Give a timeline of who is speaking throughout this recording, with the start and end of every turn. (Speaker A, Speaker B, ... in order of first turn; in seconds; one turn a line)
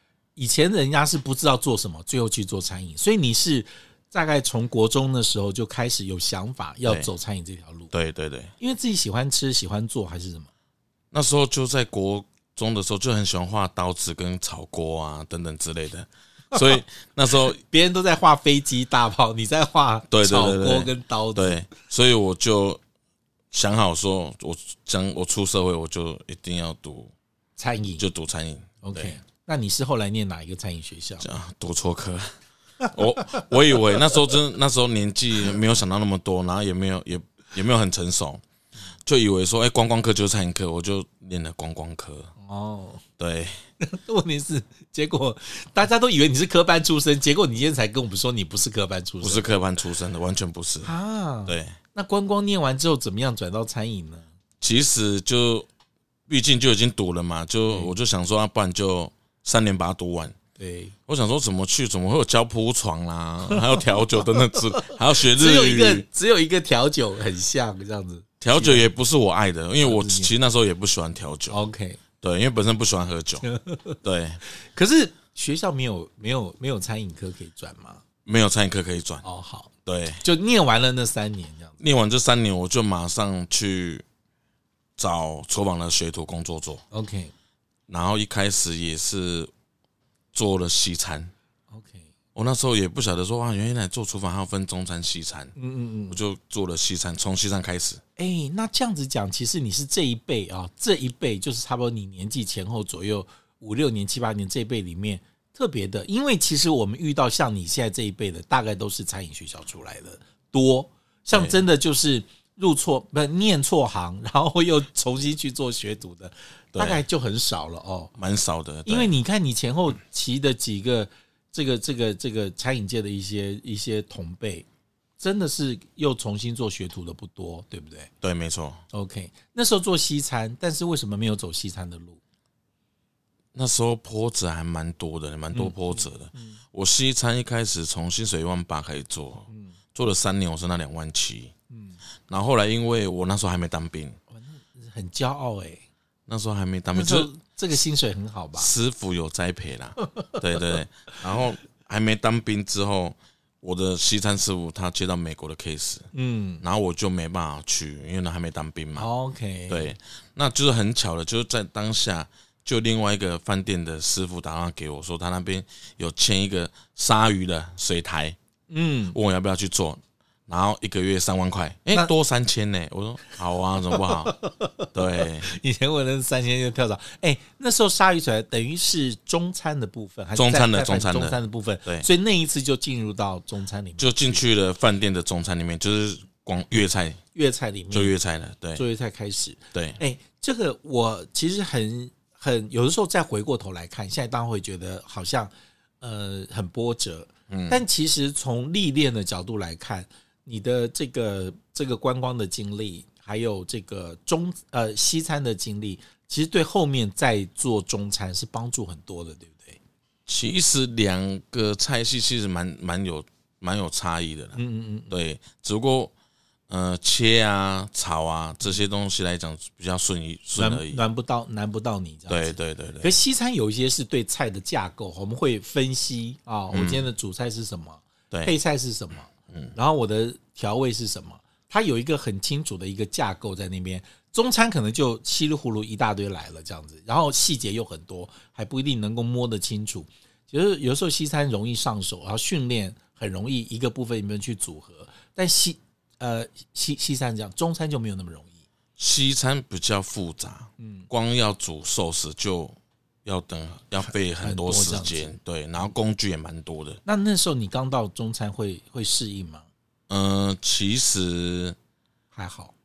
Speaker A: 0.3-7.9
Speaker B: 7.9-8.5
Speaker A: 8.6-10.5
Speaker B: 11.1-17.6
Speaker A: 16.5-16.8
Speaker A: 17.5-21.6
Speaker B: 20.1-22.8
Speaker B: 23.5-27.1
Speaker A: 27.6-28.0
Speaker B: 28.0-29.1
Speaker A: 28.8-31.2
Speaker B: 31.2-32.3
Speaker A: 32.8-34.1
Speaker B: 32.9-38.4
Speaker B: 39.0-42.3
Speaker A: 42.4-43.0
Speaker B: 43.2-43.6
Speaker A: 43.8-49.5
Speaker B: 49.2-50.9
Speaker A: 50.8-54.2
Speaker B: 51.5-51.8
Speaker B: 54.6-55.7
Speaker B: 56.3-60.4
Speaker A: 60.6-60.9
Speaker B: 61.1-66.0
Speaker A: 63.5-68.9
Speaker B: 68.4-71.6
Speaker A: 69.8-70.3
Speaker A: 71.5-72.0
Speaker B: 72.2-73.5
Speaker A: 73.4-78.0
Speaker B: 74.0-74.4
Speaker B: 78.2-79.2
Speaker A: 79.2-79.7
Speaker B: 79.8-80.2
Speaker A: 80.2-81.8
Speaker B: 81.8-84.0
Speaker B: 85.0-86.8
Speaker A: 86.9-87.3
Speaker B: 87.9-89.5
Speaker B: 90.3-91.3
Speaker A: 91.7-92.1
Speaker B: 92.3-95.5
Speaker A: 95.5-96.2
Speaker B: 96.1-98.0
Speaker A: 98.2-118.1
Speaker B: 111.3-111.6
Speaker B: 116.7-117.0
Speaker B: 118.2-119.1
Speaker A: 118.8-124.7
Speaker A: 125.2-128.1
Speaker B: 128.2-128.8
Speaker A: 128.9-132.2
Speaker B: 133.5-141.5
Speaker A: 135.5-136.6
Speaker A: 139.5-139.7
Speaker A: 141.7-142.0
Speaker B: 142.3-144.2
Speaker A: 144.3-145.8
Speaker B: 146.3-147.3
Speaker A: 146.9-148.7
Speaker B: 148.6-156.1
Speaker A: 150.1-150.4
Speaker A: 156.1-156.6
Speaker B: 156.6-159.1
Speaker A: 158.9-159.9
Speaker B: 159.7-168.4
Speaker A: 168.7-169.2
Speaker B: 169.1-174.3
Speaker A: 173.9-184.4
Speaker B: 174.9-175.5
Speaker B: 180.3-182.1
Speaker B: 184.0-187.2
Speaker A: 187.3-188.1
Speaker B: 187.9-188.8
Speaker A: 188.7-209.8
Speaker B: 189.7-190.0
Speaker B: 197.5-197.8
Speaker B: 210.2-214.6
Speaker A: 214.6-215.1
Speaker B: 215.1-216.1
Speaker B: 216.7-221.0
Speaker A: 220.6-248.6
Speaker B: 222.3-223.1
Speaker B: 226.7-227.1
Speaker B: 229.5-229.7
Speaker B: 249.0-257.0
Speaker A: 250.8-251.1
Speaker A: 254.4-255.3
Speaker A: 257.0-259.7
Speaker B: 260.1-261.8
Speaker A: 262.3-262.7